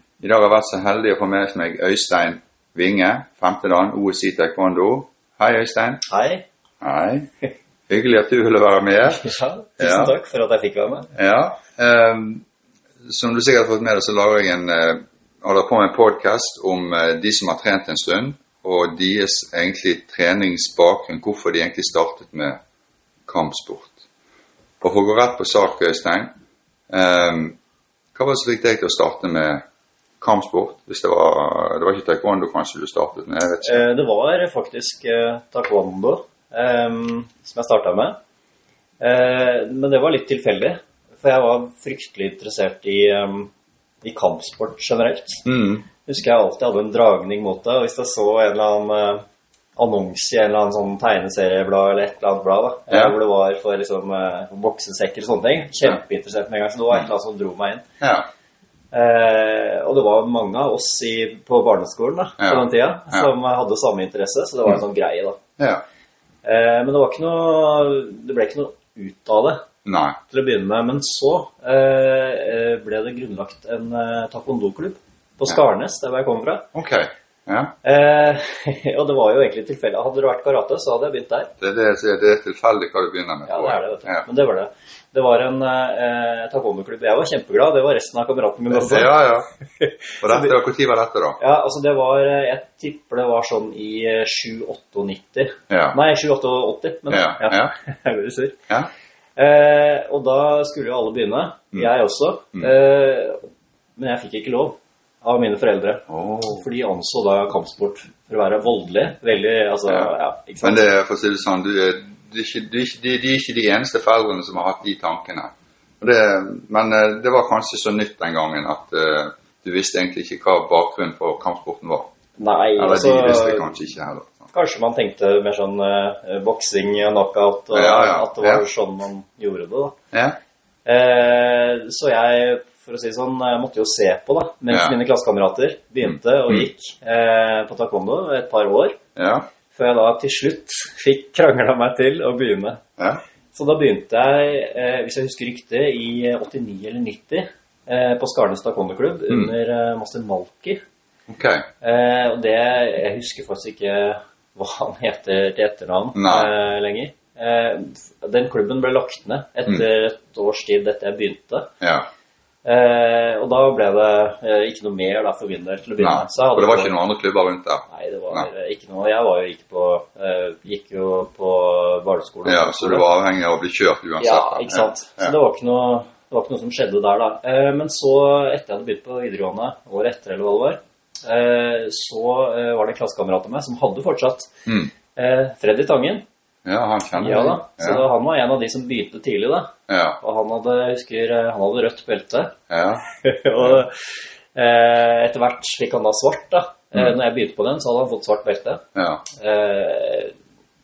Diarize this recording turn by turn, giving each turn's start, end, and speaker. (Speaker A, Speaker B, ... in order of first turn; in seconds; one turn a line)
Speaker A: 0.2-6.0
Speaker B: 6.0-6.5
Speaker A: 6.8-7.3
Speaker A: 7.9-10.1
Speaker B: 9.1-11.1
Speaker A: 11.1-12.5
Speaker A: 13.0-22.6
Speaker A: 23.3-24.0
Speaker A: 24.8-26.3
Speaker A: 26.9-27.6
Speaker A: 28.1-29.6
Speaker A: 30.2-33.9
Speaker B: 33.6-38.2
Speaker B: 39.0-43.5
Speaker B: 44.0-45.4
Speaker A: 45.5-45.9
Speaker B: 46.0-49.2
Speaker B: 49.8-57.9
Speaker A: 58.0-58.3
Speaker B: 58.9-65.4
Speaker A: 62.4-63.3
Speaker A: 65.6-65.8
Speaker B: 66.4-69.7
Speaker A: 69.8-70.2
Speaker B: 70.3-76.7
Speaker A: 76.7-77.8
Speaker B: 77.8-81.5
Speaker A: 81.6-84.2
Speaker B: 83.5-89.1
Speaker A: 88.7-89.5
Speaker B: 89.8-90.5
Speaker A: 90.2-91.4
Speaker B: 91.4-98.6
Speaker A: 95.7-96.0
Speaker A: 97.1-97.7
Speaker B: 99.4-110.9
Speaker A: 106.1-106.7
Speaker A: 109.9-122.1
Speaker B: 122.4-123.7
Speaker A: 122.8-124.5
Speaker B: 124.5-130.0
Speaker A: 127.7-128.6
Speaker A: 130.1-130.4
Speaker B: 130.8-139.0
Speaker A: 134.7-135.0
Speaker A: 136.0-136.7
Speaker A: 139.2-139.5
Speaker B: 139.7-142.8
Speaker B: 143.5-150.8
Speaker A: 151.3-151.7
Speaker B: 151.8-161.7
Speaker A: 156.2-156.5
Speaker A: 161.8-162.1
Speaker B: 162.7-166.9
Speaker A: 166.0-168.5
Speaker B: 167.9-173.1
Speaker A: 172.4-175.3
Speaker B: 174.2-184.6
Speaker A: 184.7-184.9
Speaker B: 185.2-186.2
Speaker A: 186.7-188.0
Speaker B: 187.2-192.6
Speaker A: 189.9-190.2
Speaker A: 192.7-193.0
Speaker B: 193.2-200.3
Speaker A: 198.9-199.2